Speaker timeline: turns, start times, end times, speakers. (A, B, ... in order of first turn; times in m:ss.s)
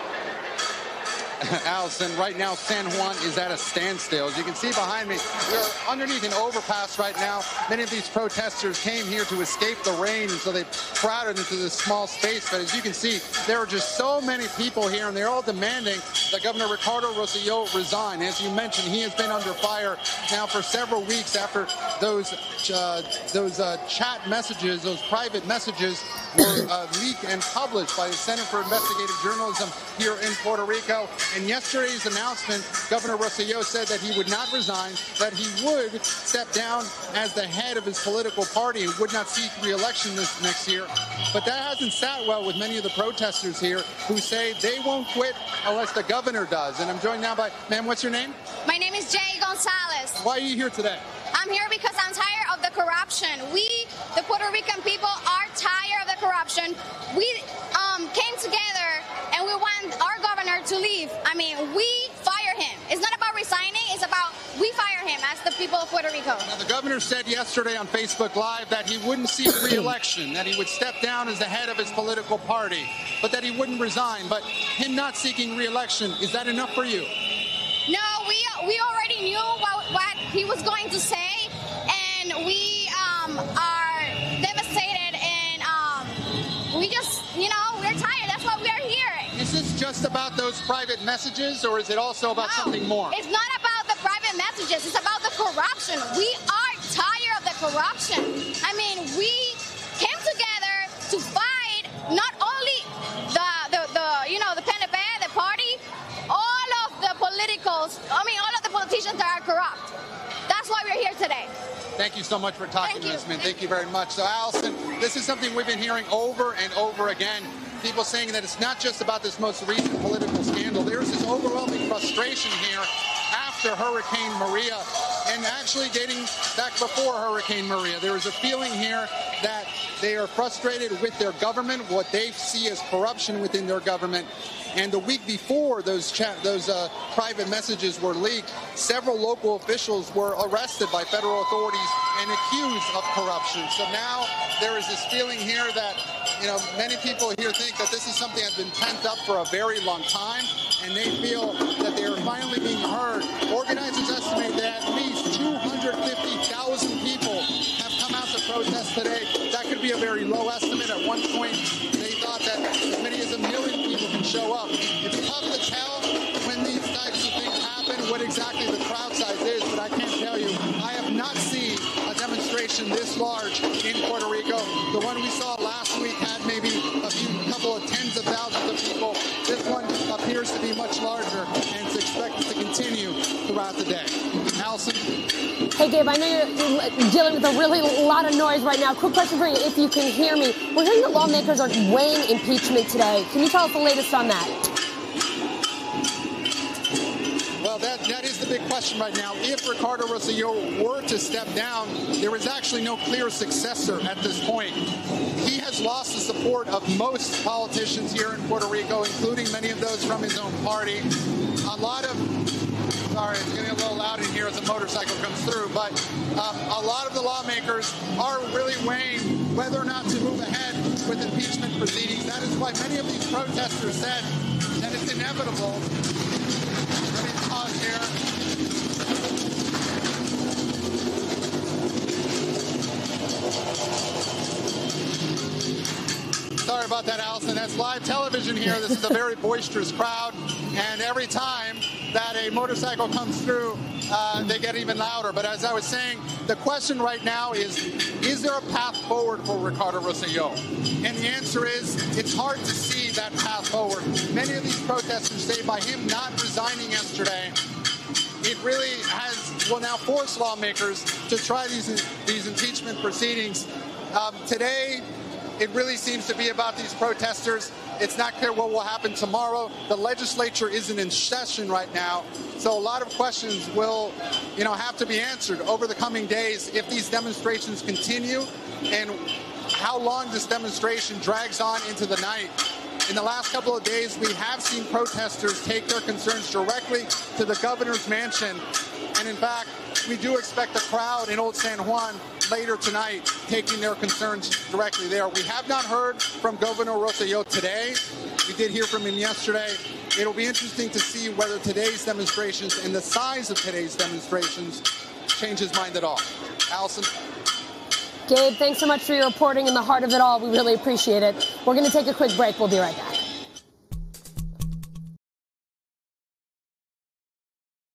0:01.4-0:48.4 A
0:48.6-0:50.2 B
0:50.2-0:51.0 A
0:51.3-1:06.5 B
1:06.4-1:17.1 A
1:17.9-1:29.3 B
1:29.3-1:33.2 A
1:32.4-1:49.9 B
1:50.5-1:51.5 B
1:52.0-3:05.1 A
1:52.8-1:53.5 B
3:05.7-3:14.6 C
3:17.6-3:31.1 A
3:31.6-3:32.3 A
3:33.1-3:45.9 A
3:47.1-3:48.1 A
3:56.6-4:17.5 A
4:18.4-4:25.0 A
4:25.6-4:48.6 A
4:49.1-5:07.1 A
5:08.3-5:13.2 C